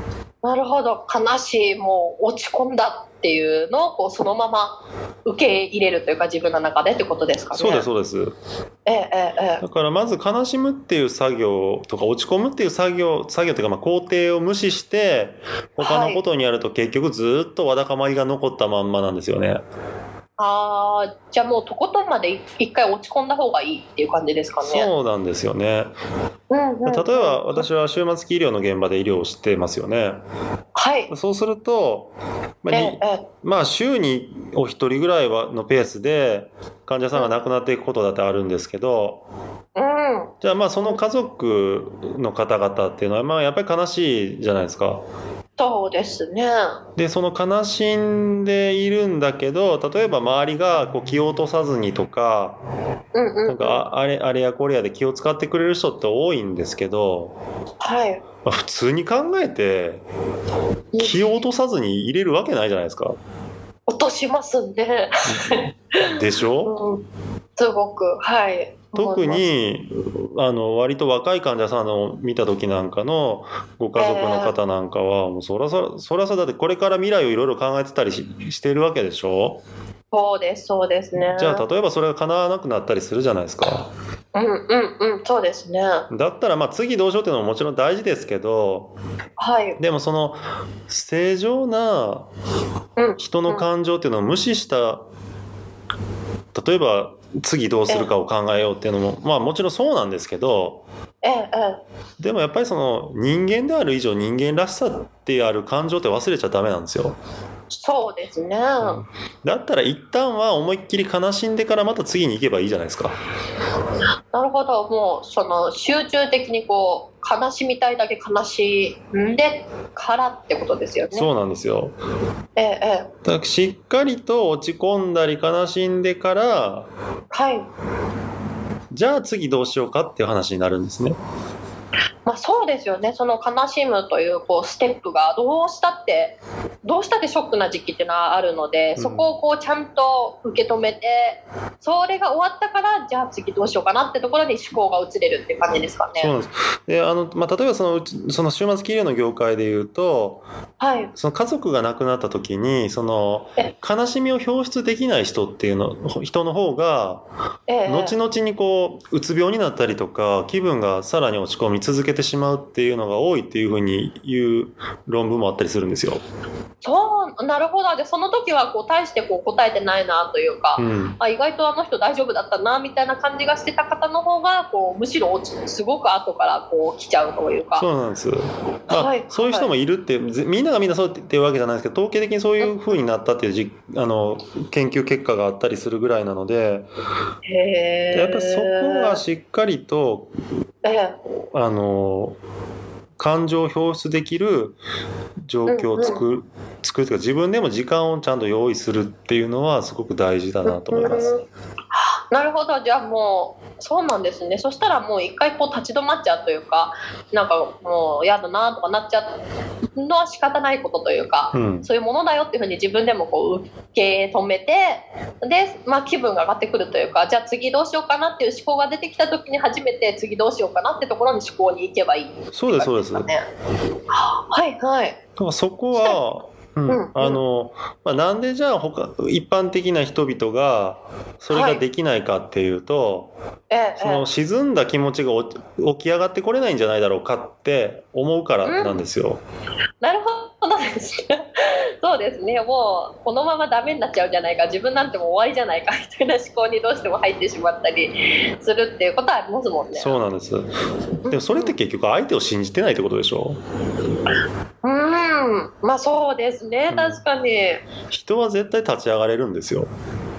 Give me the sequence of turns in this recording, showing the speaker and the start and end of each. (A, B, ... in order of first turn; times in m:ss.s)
0:00.4-0:07.9 A
0:07.5-0:08.4 B
0:08.8-0:09.6 A
0:09.6-0:19.6 B
0:15.8-0:16.2 A
0:20.4-0:24.9 A
0:24.6-0:26.0 B
0:26.5-0:27.6 A
0:26.8-0:30.2 B
0:30.7-0:31.1 A
0:31.1-0:39.2 B
0:32.7-0:33.3 A
0:39.7-0:40.3 A
0:40.4-0:45.0 B
0:45.6-0:46.8 A
0:47.0-0:52.6 B
0:53.1-0:53.8 A
0:53.5-0:57.4 B
0:57.8-0:58.2 A
0:58.4-1:00.0 B
1:00.9-1:01.2 A
1:01.0-1:03.2 B
1:03.9-1:07.0 A
1:05.4-1:06.7 B
1:07.6-1:09.4 A
1:08.9-1:19.6 B
1:14.0-1:14.6 A
1:20.1-1:21.6 A
1:21.3-1:23.9 B
1:24.3-1:26.1 A
1:26.1-1:28.9 B
1:29.4-1:29.8 A
1:29.8-1:32.3 B
1:33.0-1:33.6 A
1:33.2-1:35.0 B
1:36.5-1:40.8 B
1:41.2-1:41.8 A
1:42.2-1:47.2 B
1:47.7-1:49.0 A
1:48.8-1:53.2 B
1:54.3-2:01.3 A
2:01.1-2:02.0 B
2:02.6-2:03.1 A
2:03.2-2:06.9 B
2:07.3-2:07.7 A
2:08.9-2:11.2 B
2:12.2-2:26.3 A
2:19.0-2:19.3 B
2:26.1-2:30.4 B
2:30.8-2:31.1 A
2:31.2-2:37.2 B
2:37.7-2:38.1 A
2:37.8-2:46.2 B
2:46.8-2:57.9 A
2:50.8-2:51.2 B
2:57.8-3:06.9 B
2:58.9-2:59.7 A
3:07.5-3:09.2 A
3:08.1-3:10.3 B
3:10.8-3:11.2 A
3:11.5-3:12.4 B
3:13.2-3:14.8 B
3:15.4-3:21.3 B
3:15.7-3:16.2 A
3:20.6-3:29.4 A
3:30.0-3:43.4 A
3:31.5-3:31.9 B
3:42.5-3:43.3 B
3:44.1-3:45.2 A
3:45.4-3:53.3 B
3:45.9-3:46.2 A
3:46.9-3:47.4 A
3:51.5-3:51.8 A
3:53.7-3:54.3 A
3:54.0-3:59.4 B
3:58.6-3:59.0 A
4:00.0-4:10.2 A
4:09.9-4:13.6 B
4:11.3-4:11.7 A
4:14.8-4:17.8 A
4:16.9-4:17.2 B
4:18.1-4:19.9 B